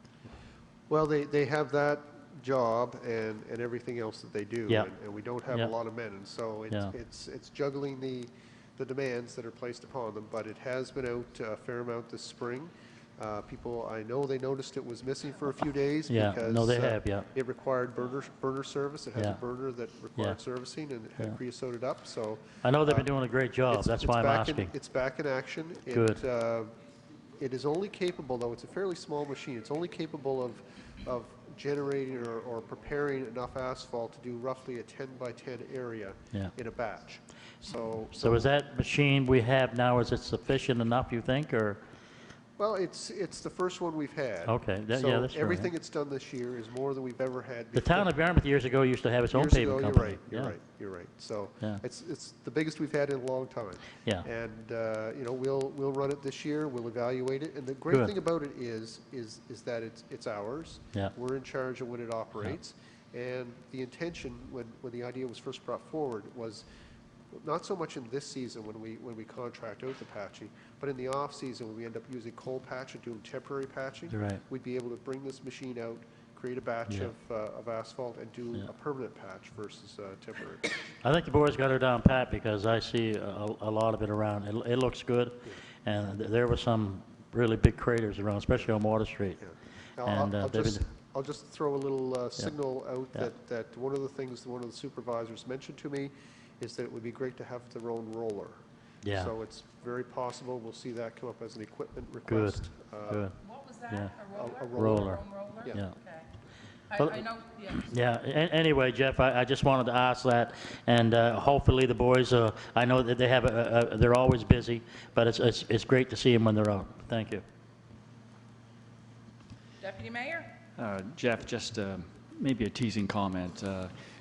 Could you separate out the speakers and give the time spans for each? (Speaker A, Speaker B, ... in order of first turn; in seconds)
Speaker A: 0.9-23.1, 23.7-26.8, 27.4-38.5, 42.6-48.1, 49.3-66.6, 67.3-80.8, 89.4-98.6, 99.1-103.3, 104.3-105.8
Speaker B: 16.1-17.3, 19.1-19.4, 22.6-24.7, 25.9-26.2, 38.1-41.8, 44.5-45.7, 47.7-50.5, 74.1-74.4, 81.0-89.4, 90.0-90.8, 99.0-99.3, 102.3-103.3, 104.8-105.9, 107.0-107.2, 107.8-117.4
Speaker C: 103.4-106.3, 106.9-107.9, 119.8-120.5
Speaker D: 120.8-124.0